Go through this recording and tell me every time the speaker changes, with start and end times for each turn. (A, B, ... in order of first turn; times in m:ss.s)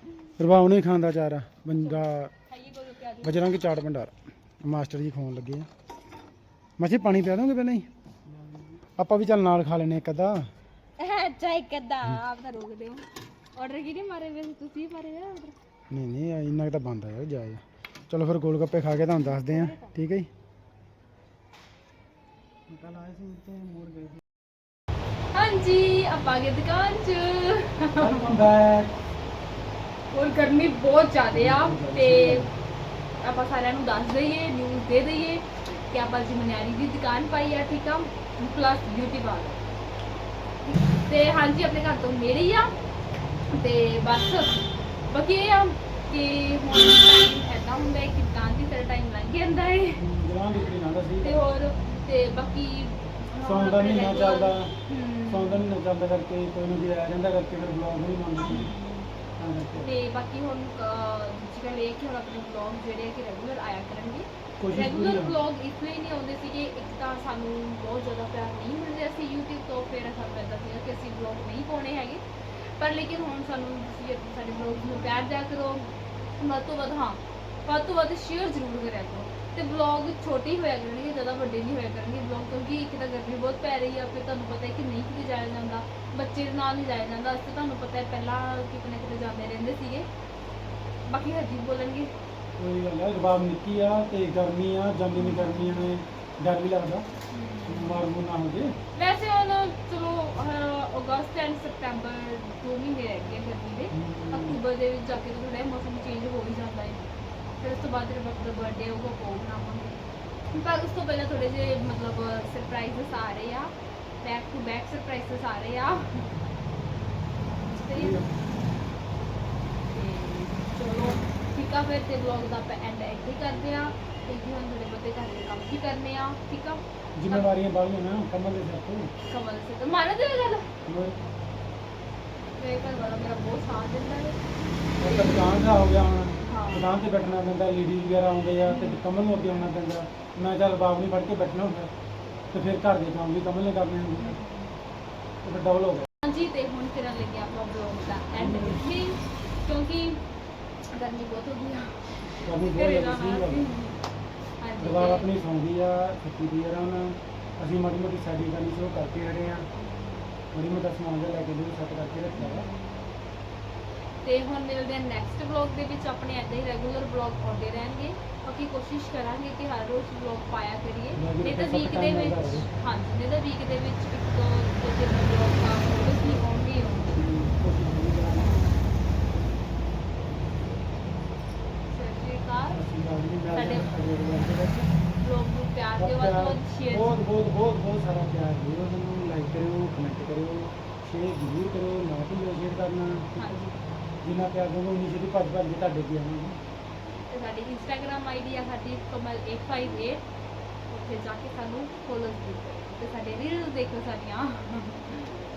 0:00.4-0:02.3 A
0:01.7-0:03.5 B
0:03.2-0:05.7 A
0:06.8-0:07.9 A
0:09.0-0:10.5 A
0:11.0-0:15.5 B
0:15.9-0:20.3 A
0:19.1-0:19.9 B
0:22.7-0:24.2 A
0:25.3-0:28.3 B
0:28.0-0:28.9 A
0:30.1-0:32.5 B
0:31.3-0:32.5 A
0:33.2-0:39.6 B
0:40.6-0:42.7 B
0:43.5-0:50.0 B
0:50.0-0:51.4 A
0:51.2-0:55.6 B
0:53.4-0:54.7 A
0:55.3-0:58.7 A
0:58.4-0:59.1 B
0:59.4-1:00.0 A
0:59.8-1:30.1 B
1:04.6-1:05.4 A
1:31.1-1:32.1 B
1:32.6-1:37.0 A
1:35.2-1:35.8 B
1:37.3-1:38.1 B
1:37.6-1:38.7 A
1:38.9-1:50.0 B
1:43.9-1:44.6 A
1:50.5-1:56.4 B
1:57.6-1:58.3 B
1:57.9-1:58.3 A
1:59.9-2:07.5 B
2:07.2-2:09.1 A
2:09.3-2:10.7 B
2:10.9-2:11.2 A
2:12.6-2:14.4 B
2:15.0-2:21.9 A
2:15.0-2:15.6 B
2:16.4-2:16.9 B
2:18.6-2:19.7 B
2:22.5-2:24.4 A
2:24.2-2:24.7 B
2:25.4-2:26.1 A
2:26.2-2:30.2 B
2:28.3-2:28.8 A
2:30.9-2:34.0 B
2:32.4-2:33.7 A
2:34.6-2:35.3 B
2:34.8-2:39.7 A
2:39.8-2:40.4 B
2:40.5-2:42.6 A
2:42.3-2:43.1 B
2:44.2-2:57.2 B
2:51.1-2:52.7 A
2:57.1-2:58.5 A
2:58.3-2:58.9 B
3:01.9-3:02.8 B
3:02.7-3:04.9 A
3:03.5-3:03.9 B
3:05.2-3:07.2 B
3:06.0-3:13.3 A
3:13.4-3:13.8 B
3:14.2-3:16.6 A
3:17.3-3:20.2 B
3:20.9-3:25.3 B